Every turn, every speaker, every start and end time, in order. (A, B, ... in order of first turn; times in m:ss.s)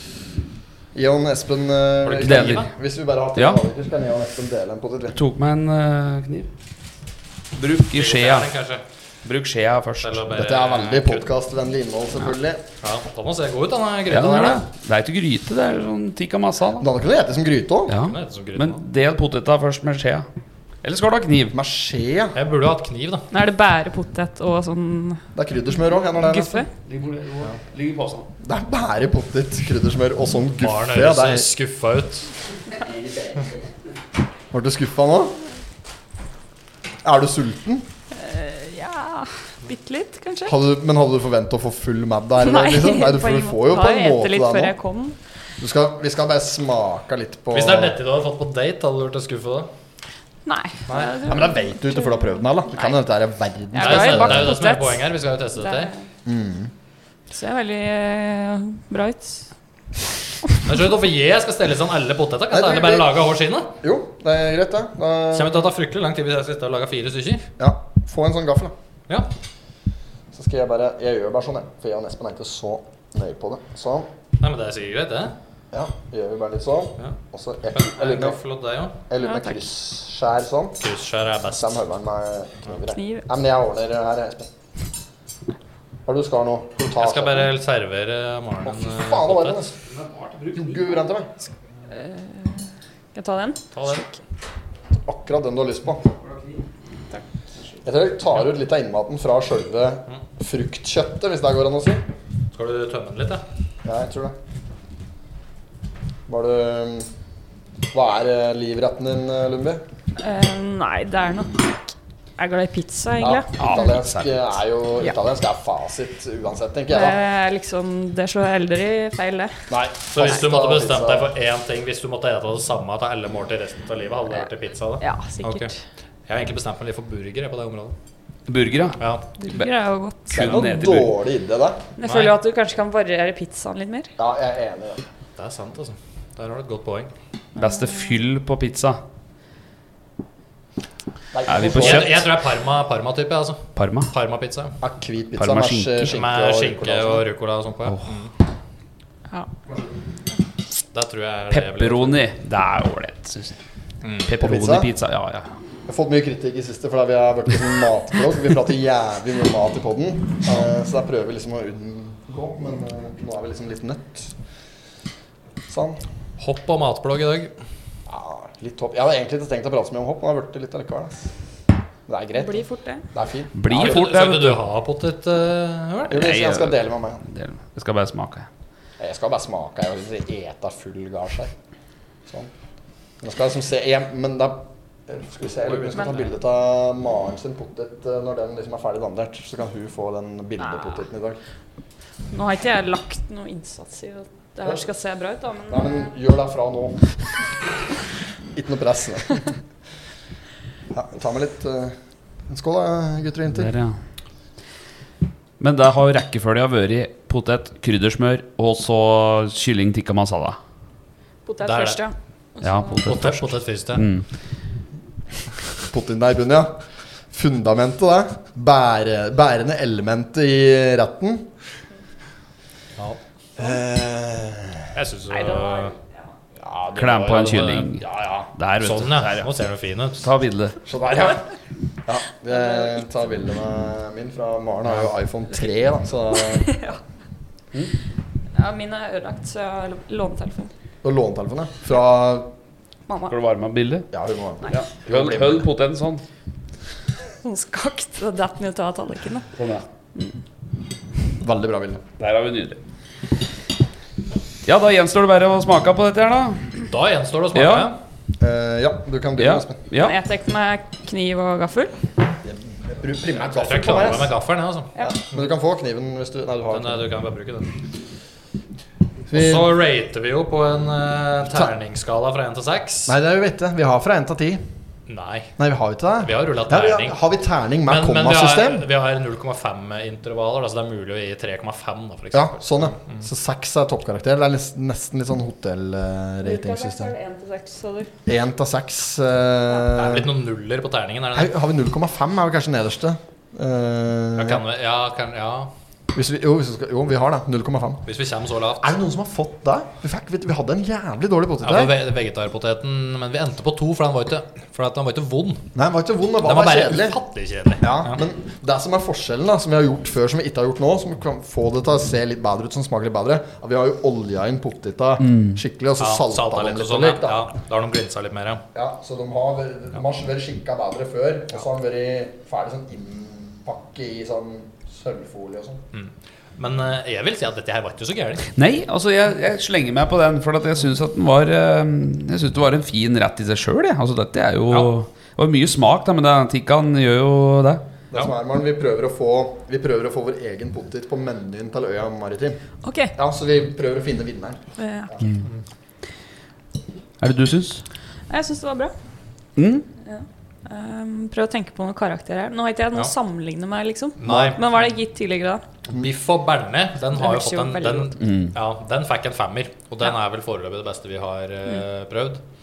0:01.0-0:05.2 A
0:02.0-0:02.7 B
0:02.2-0:02.6 C
0:05.1-0:06.5 C
0:07.6-0:08.5 C
0:07.9-0:08.8 B
0:09.2-0:10.2 C
0:10.0-0:11.3 B
0:10.3-0:12.6 A
0:12.8-0:14.6 B
0:14.1-0:16.9 C
0:16.8-0:18.0 A
0:17.9-0:20.3 C
0:18.0-0:18.8 B
0:20.8-0:21.6 C
0:21.5-0:22.4 A
0:22.4-0:23.3 B
0:23.3-0:25.2 D
0:25.4-0:26.7 A
0:26.1-0:26.7 D
0:26.8-0:28.3 C
0:28.4-0:31.5 A
0:30.6-0:32.3 B
0:34.5-0:35.4 A
0:37.0-0:37.9 A
0:38.2-0:40.6 D
0:40.5-0:44.8 A
0:42.4-0:45.2 D
0:45.6-0:48.0 A
0:47.5-0:49.7 B
0:50.5-0:53.0 D
0:50.9-0:51.2 B
0:51.2-0:54.6 A
0:53.7-0:55.1 D
0:53.8-0:55.9 B
0:55.6-0:56.0 D
0:56.3-0:56.7 A
0:57.3-0:59.5 D
1:00.6-1:03.7 B
1:02.5-1:03.1 A
1:03.8-1:05.7 A
1:05.3-1:07.5 B
1:07.6-1:08.7 A
1:10.3-1:14.1 A
1:14.4-1:15.4 B
1:15.7-1:18.4 A
1:17.7-1:19.0 B
1:19.1-1:20.8 A
1:19.2-1:19.6 D
1:20.8-1:21.7 B
1:21.4-1:24.5 A
1:22.9-1:23.3 D
1:26.1-1:27.5 A
1:27.0-1:29.6 B
1:28.6-1:29.8 A
1:29.9-1:30.8 C
1:30.5-1:31.3 A
1:31.9-1:34.1 D
1:33.7-1:34.0 B
1:35.1-1:36.0 A
1:37.8-1:42.0 A
1:42.5-1:43.4 B
1:43.8-1:44.4 A
1:46.3-1:47.1 A
1:47.9-1:49.8 A
1:50.2-1:53.6 D
1:53.2-1:57.2 A
1:53.6-1:54.3 C
1:56.9-1:59.5 D
1:59.7-2:01.3 A
2:00.1-2:05.7 B
2:05.0-2:05.8 D
2:06.3-2:08.0 B
2:08.5-2:09.7 C
2:09.0-2:09.2 B
2:09.4-2:10.6 D
2:10.3-2:11.1 C
2:10.3-2:11.8 A
2:12.0-2:14.1 D
2:12.0-2:12.3 B
2:14.2-2:15.0 A
2:15.4-2:17.1 B
2:17.6-2:19.0 C
2:17.6-2:18.1 D
2:21.3-2:22.2 A
2:21.5-2:22.3 C
2:21.7-2:24.7 B
2:23.8-2:24.1 C
2:24.8-2:27.2 A
2:25.4-2:26.1 C
2:26.1-2:28.3 B
2:30.9-2:32.2 B
2:31.5-2:33.5 C
2:34.0-2:34.3 B
2:34.2-2:35.5 C
2:34.4-2:34.9 A
2:35.9-2:44.4 A
2:45.7-2:46.0 A
2:46.4-2:47.5 B
2:48.1-2:51.3 A
2:52.1-2:54.1 A
2:52.4-2:53.0 D
2:53.6-2:54.6 C
2:53.7-2:56.2 B
2:56.1-2:57.2 A
2:56.1-2:58.5 C
2:59.0-3:01.5 A
3:03.2-3:11.4 A
3:05.6-3:06.3 B
3:12.3-3:16.1 D
3:15.7-3:17.2 A
3:18.5-3:19.5 A
3:20.9-3:22.0 A
3:22.5-3:23.7 A
3:23.5-3:24.0 C
3:25.6-3:30.6 C
3:31.5-3:33.0 D
3:31.6-3:32.0 B
3:32.6-3:34.3 C
3:33.0-3:34.1 B
3:35.9-3:36.8 A
3:37.3-3:41.5 A
3:43.6-3:44.9 A
3:44.9-3:46.0 B
3:45.3-3:46.0 D
3:46.6-3:47.4 A
3:46.9-3:48.0 C
3:47.0-3:47.9 B
3:47.9-3:48.5 A
3:48.6-3:49.5 C
3:48.8-3:50.3 B
3:50.2-3:50.8 C
3:50.9-3:51.4 A
3:52.1-3:56.9 A
3:56.6-3:57.0 D
3:58.6-4:00.7 D
4:01.0-4:02.5 A
4:03.3-4:04.1 C
4:04.1-4:05.7 A
4:04.7-4:06.2 C
4:07.4-4:09.5 D
4:09.6-4:09.8 C
4:11.4-4:12.0 A
4:12.2-4:12.8 C
4:14.6-4:16.7 C
4:16.9-4:18.0 B
4:17.5-4:17.9 C
4:18.4-4:19.8 A
4:19.4-4:20.2 C
4:20.0-4:21.9 D
4:22.4-4:24.3 A
4:23.4-4:24.9 B
4:25.0-4:27.1 A
4:26.7-4:27.7 B
4:29.3-4:29.7 A
4:29.3-4:33.2 B
4:33.1-4:34.6 A
4:35.1-4:35.5 B
4:35.6-4:38.9 A
4:36.2-4:37.2 B
4:37.9-4:43.2 B
4:42.3-4:47.1 A
4:46.4-4:48.1 D
4:48.3-4:50.3 A
4:49.9-4:51.5 B
4:51.3-4:54.6 A
4:54.4-4:55.7 B
4:56.1-4:58.0 A
4:58.1-4:58.9 B
4:58.8-5:02.0 A
5:01.6-5:05.7 B
5:05.7-5:07.2 A
5:06.4-5:08.2 B
5:07.8-5:17.5 A
5:16.0-5:18.6 B
5:18.8-5:25.8 A
5:25.9-5:28.5 B
5:28.6-5:37.8 C
5:38.1-5:42.6 A
5:42.8-5:43.1 D
5:43.2-5:44.6 A
5:44.8-5:45.1 D
5:47.2-5:47.8 C
5:48.3-5:48.9 D
5:49.6-5:49.9 C
5:50.0-5:55.6 D
5:54.2-5:54.8 B
5:54.2-5:54.6 A
5:55.9-6:02.4 B
5:57.2-5:58.2 D
5:58.2-5:58.6 C